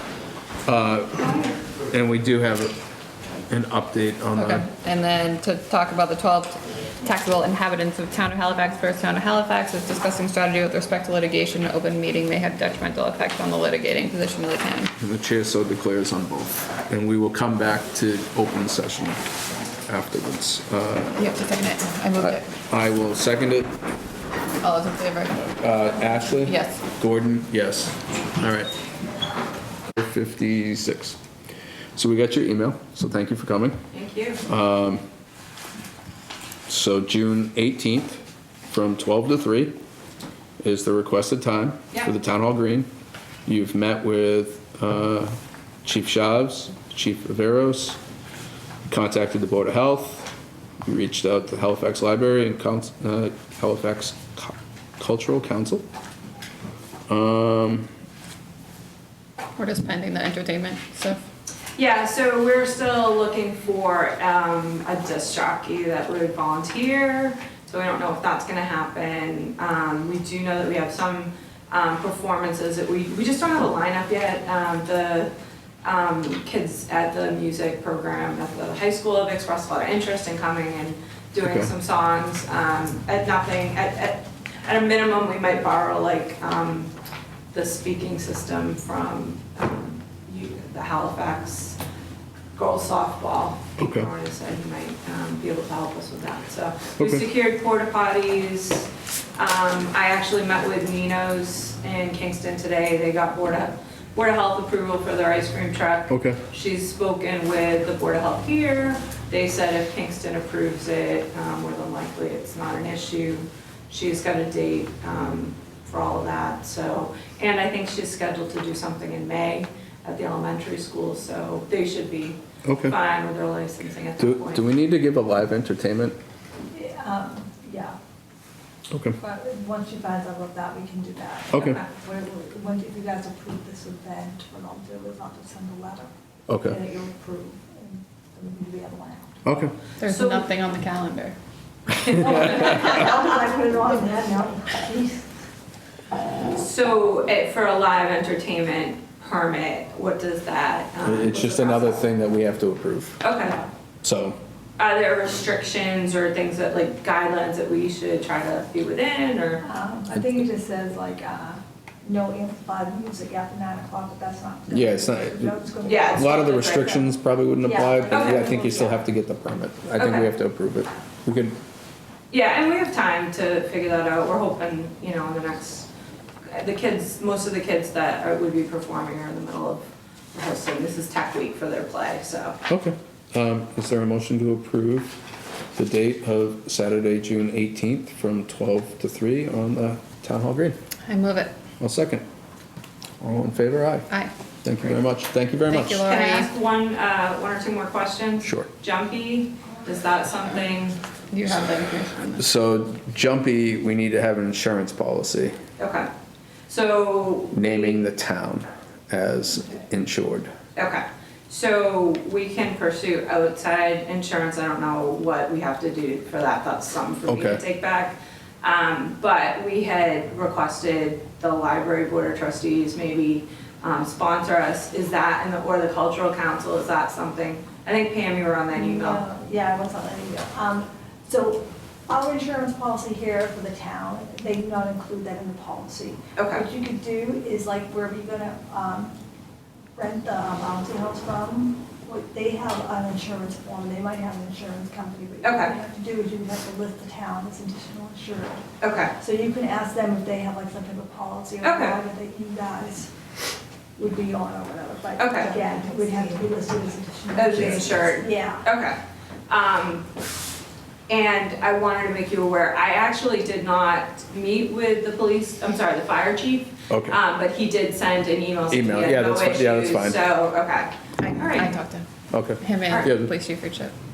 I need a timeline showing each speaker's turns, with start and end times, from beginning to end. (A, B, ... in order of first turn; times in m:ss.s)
0:00.7-0:01.3 A
0:01.2-0:01.6 B
0:01.9-0:02.8 A
0:03.5-0:04.7 A
0:04.4-0:14.9 C
0:15.0-0:19.2 A
0:19.9-0:21.2 A
0:21.2-0:22.5 C
0:22.2-0:23.8 A
0:24.6-0:25.4 C
0:25.5-0:28.8 A
0:26.4-0:26.8 C
0:30.0-0:31.2 A
0:32.0-0:33.8 A
0:33.9-0:34.4 B
0:34.4-0:35.0 A
0:36.7-0:39.8 A
0:40.6-0:42.9 A
0:43.5-0:48.0 A
0:48.9-0:50.3 A
0:50.8-0:55.9 A
0:57.1-0:57.9 A
0:59.6-1:01.2 C
1:01.8-1:15.3 B
1:15.8-1:26.9 B
1:21.4-1:21.7 A
1:27.5-1:31.8 B
1:32.6-2:04.6 B
1:33.8-1:34.1 A
1:37.0-1:37.2 A
1:46.1-1:46.4 A
2:02.6-2:03.0 A
2:04.2-2:06.2 A
2:06.7-2:08.0 D
2:08.9-2:09.2 A
2:09.2-2:16.1 D
2:11.5-2:11.8 A
2:11.5-2:11.9 B
2:16.5-2:16.8 A
2:16.6-2:19.4 D
2:19.4-2:19.7 A
2:20.0-2:21.4 C
2:20.0-2:20.5 B
2:22.0-2:22.9 B
2:22.1-2:25.3 D
2:26.5-2:32.0 B
2:31.0-2:33.2 A
2:33.2-2:33.6 B
2:34.0-2:34.4 A
2:34.8-2:39.6 B
2:39.6-2:49.0 D
2:44.7-2:45.6 A
2:45.8-2:46.9 B
2:46.1-2:51.6 A
2:48.1-2:48.6 B
2:50.0-2:50.3 B
2:52.3-2:55.9 B
2:56.5-3:02.6 B
3:02.7-3:05.2 A
3:05.8-3:10.8 A
3:11.1-3:11.5 C
3:11.8-3:12.2 A
3:13.2-3:14.1 A
3:14.6-3:16.0 A
3:15.7-3:16.5 C
3:16.0-3:21.0 B
3:18.4-3:18.7 A
3:21.3-3:22.4 C
3:22.4-3:25.6 A
3:25.8-3:26.1 B
3:26.7-3:28.0 B
3:27.5-3:30.5 A
3:30.8-3:49.3 B
3:37.3-3:37.6 A
3:48.7-3:59.2 D
3:56.4-3:56.7 B
4:00.0-4:08.6 D
4:05.4-4:05.8 B
4:08.8-4:09.1 B
4:09.2-4:13.1 D
4:11.6-4:12.0 B
4:14.0-4:18.6 D
4:15.2-4:15.8 B
4:17.3-4:19.0 B
4:19.5-4:20.1 B
4:21.1-4:31.8 B
4:26.9-4:27.2 A
4:28.7-4:30.2 A
4:31.2-4:32.1 C
4:32.3-4:33.3 A
4:32.6-4:33.9 C